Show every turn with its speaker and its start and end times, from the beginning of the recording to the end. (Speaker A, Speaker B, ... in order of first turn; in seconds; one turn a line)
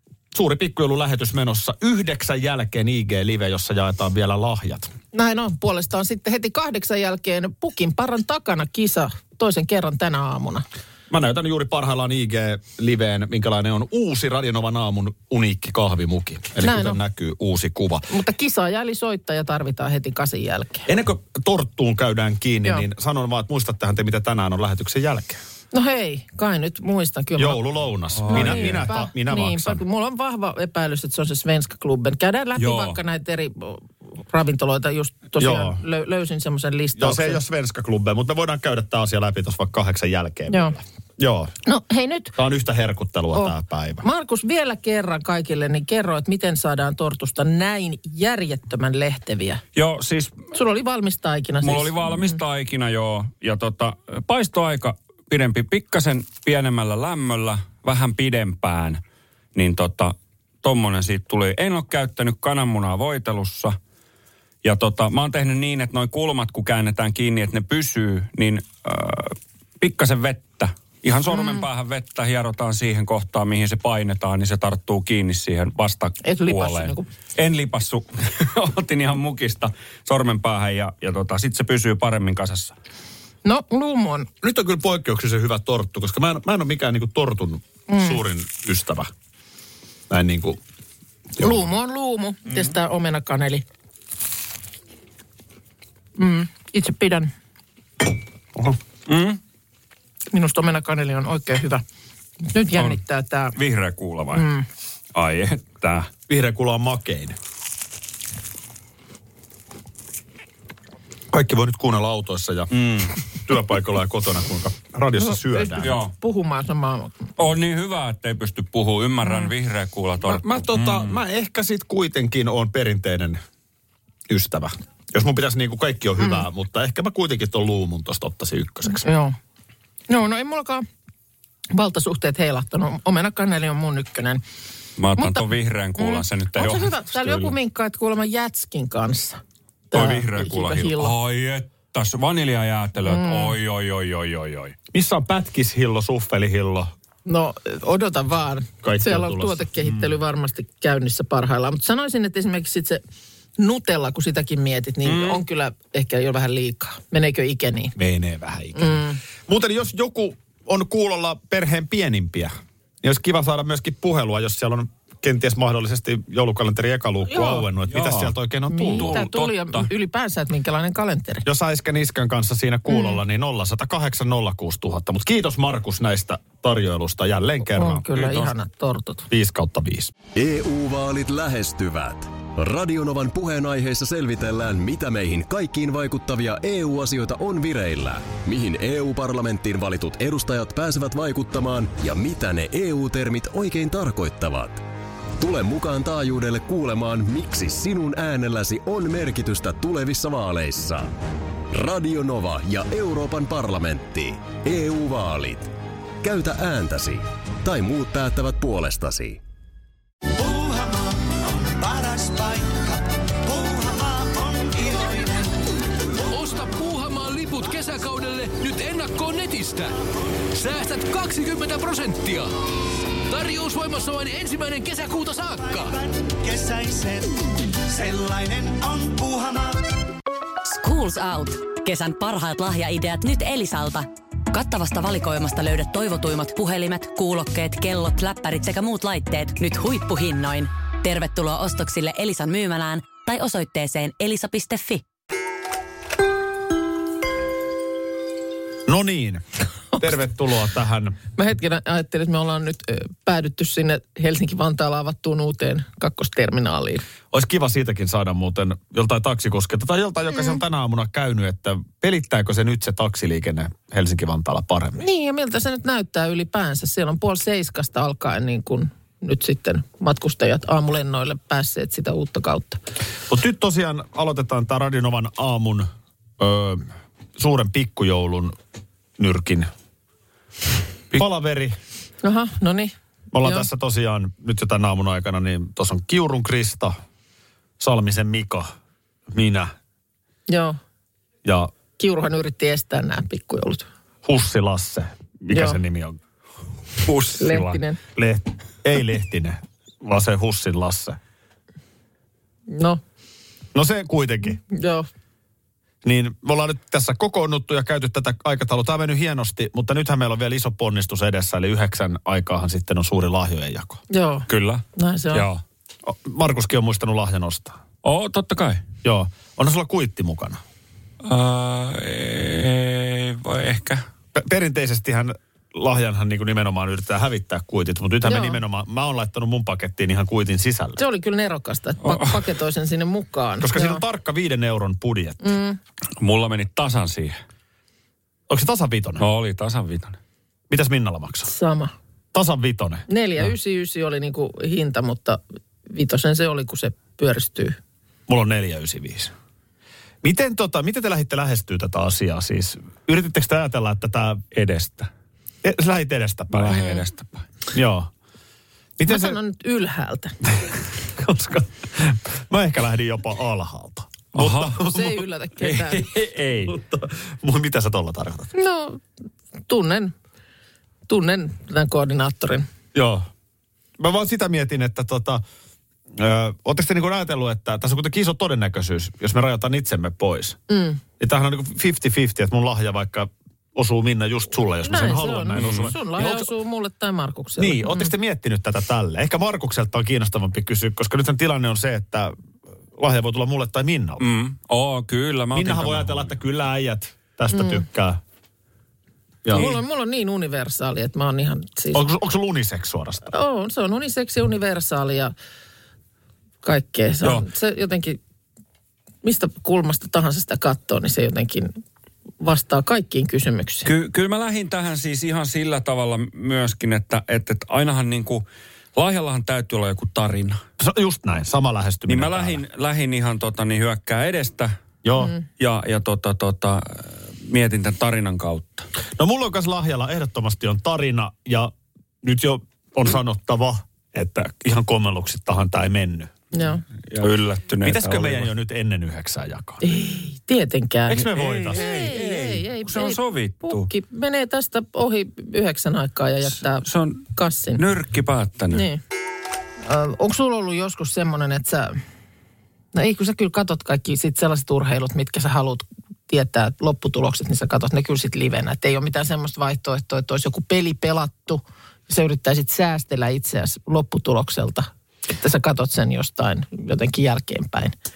Speaker A: 0.3-4.9
Speaker B: 5.1-10.6
Speaker A: 11.1-18.1
Speaker B: 16.6-17.0
Speaker B: 18.1-20.9
Speaker A: 20.9-25.4
Speaker B: 25.7-27.6
Speaker A: 27.4-29.8
Speaker C: 28.2-28.8
Speaker B: 28.3-37.4
Speaker C: 32.6-33.0
Speaker A: 35.4-35.8
Speaker A: 37.0-41.5
Speaker B: 40.5-40.8
Speaker B: 41.6-42.3
Speaker A: 42.4-44.0
Speaker B: 43.3-49.6
Speaker C: 49.7-50.5
Speaker B: 50.5-52.4
Speaker C: 51.6-59.0
Speaker C: 59.5-63.8
Speaker C: 64.6-82.7
Speaker B: 71.3-71.6
Speaker B: 76.2-77.1
Speaker B: 83.4-84.3
Speaker A: 84.4-89.1
Speaker B: 87.9-88.2
Speaker A: 90.1-90.6
Speaker A: 91.4-91.6
Speaker B: 91.4-93.6
Speaker C: 92.5-92.7
Speaker B: 96.2-97.3
Speaker C: 99.1-99.4
Speaker B: 100.3-101.8
Speaker B: 102.5-103.5
Speaker C: 103.5-104.5
Speaker B: 104.3-104.6
Speaker C: 105.1-106.1
Speaker A: 106.3-107.3
Speaker A: 111.3-116.0
Speaker C: 112.7-113.2
Speaker B: 115.2-117.1
Speaker C: 115.8-116.1
Speaker C: 117.4-121.2
Speaker B: 119.2-119.5
Speaker A: 120.2-123.4
Speaker A: 124.3-129.0
Speaker B: 128.9-129.3
Speaker B: 130.1-130.8
Speaker B: 131.7-134.4
Speaker C: 135.0-137.5
Speaker B: 135.2-139.4
Speaker B: 139.9-141.1
Speaker C: 139.9-144.8
Speaker B: 143.0-143.5
Speaker A: 144.9-146.9
Speaker B: 147.2-153.0
Speaker A: 148.8-149.7
Speaker C: 149.8-150.1
Speaker B: 153.6-157.9
Speaker C: 155.0-155.4
Speaker A: 157.9-169.2
Speaker B: 158.8-159.2
Speaker B: 167.3-167.6
Speaker C: 167.9-168.3
Speaker B: 168.7-171.4
Speaker C: 168.9-169.9
Speaker A: 171.4-178.1
Speaker B: 172.9-173.2
Speaker B: 177.8-179.3
Speaker C: 178.1-178.5
Speaker A: 179.3-180.1
Speaker D: 180.3-194.8
Speaker D: 195.4-201.1
Speaker D: 201.7-209.4
Speaker E: 210.3-215.6
Speaker E: 216.2-216.8
Speaker F: 216.3-219.9
Speaker F: 220.5-222.5
Speaker F: 223.3-225.9
Speaker E: 225.5-229.8
Speaker G: 230.6-245.0
Speaker A: 248.9-249.4
Speaker A: 250.0-251.2
Speaker B: 251.3-257.0
Speaker A: 257.3-265.0
Speaker B: 265.0-272.8
Speaker A: 273.3-278.5
Speaker A: 279.2-279.7
Speaker A: 281.1-281.8
Speaker B: 282.2-283.7
Speaker A: 283.3-286.9
Speaker A: 287.8-288.7
Speaker A: 289.3-289.7
Speaker B: 290.5-290.8
Speaker A: 291.4-291.7
Speaker B: 292.0-293.9
Speaker A: 294.2-296.2
Speaker B: 295.5-295.8
Speaker C: 297.1-297.3
Speaker B: 297.3-298.0
Speaker A: 297.3-301.2
Speaker B: 302.7-303.0
Speaker A: 303.7-304.6
Speaker B: 304.7-305.1
Speaker A: 306.0-314.0
Speaker B: 314.1-315.4
Speaker C: 314.5-315.6
Speaker A: 316.0-317.8
Speaker C: 318.0-318.8
Speaker A: 319.0-320.6
Speaker C: 321.2-324.0
Speaker A: 324.3-331.0
Speaker B: 328.2-328.6
Speaker B: 331.0-334.0
Speaker C: 332.0-332.4
Speaker A: 333.6-335.5
Speaker B: 335.4-335.8
Speaker C: 336.2-337.4
Speaker A: 338.5-339.2
Speaker C: 339.2-340.2
Speaker A: 340.7-341.5
Speaker B: 341.5-341.9
Speaker A: 342.3-343.1
Speaker B: 343.1-347.8
Speaker A: 348.3-349.3
Speaker A: 350.2-354.4
Speaker C: 354.5-355.1
Speaker A: 355.6-356.9
Speaker C: 356.5-357.4
Speaker B: 356.7-357.0
Speaker A: 357.7-358.1
Speaker A: 359.0-359.4
Speaker B: 359.1-360.4
Speaker A: 360.4-365.2
Speaker C: 364.3-364.8
Speaker B: 364.8-366.0
Speaker C: 365.6-366.7
Speaker A: 366.6-368.5
Speaker B: 368.5-369.0
Speaker B: 369.7-370.1
Speaker B: 371.1-372.7
Speaker A: 372.9-373.3
Speaker A: 374.0-375.4
Speaker A: 376.1-380.6
Speaker B: 380.7-381.0
Speaker A: 381.2-386.5
Speaker B: 384.8-388.1
Speaker C: 385.5-385.9
Speaker A: 387.6-392.3
Speaker A: 392.9-394.2
Speaker C: 394.2-396.3
Speaker A: 395.5-398.2
Speaker B: 397.5-397.8
Speaker A: 399.4-399.7
Speaker B: 399.5-402.0
Speaker C: 399.5-399.8
Speaker A: 401.9-403.3
Speaker B: 403.3-405.3
Speaker B: 406.6-408.2
Speaker B: 409.2-411.8
Speaker B: 412.4-413.9
Speaker C: 413.8-420.6
Speaker A: 420.8-422.6
Speaker C: 422.1-424.7
Speaker A: 425.0-425.3
Speaker C: 425.6-428.9
Speaker A: 429.2-436.3
Speaker B: 436.5-436.8
Speaker C: 437.1-438.5
Speaker A: 437.8-439.8
Speaker B: 439.8-447.8
Speaker A: 441.1-441.9
Speaker C: 441.3-443.9
Speaker C: 446.8-447.2
Speaker C: 447.8-448.8
Speaker B: 448.7-449.0
Speaker B: 449.8-452.0
Speaker B: 452.9-467.9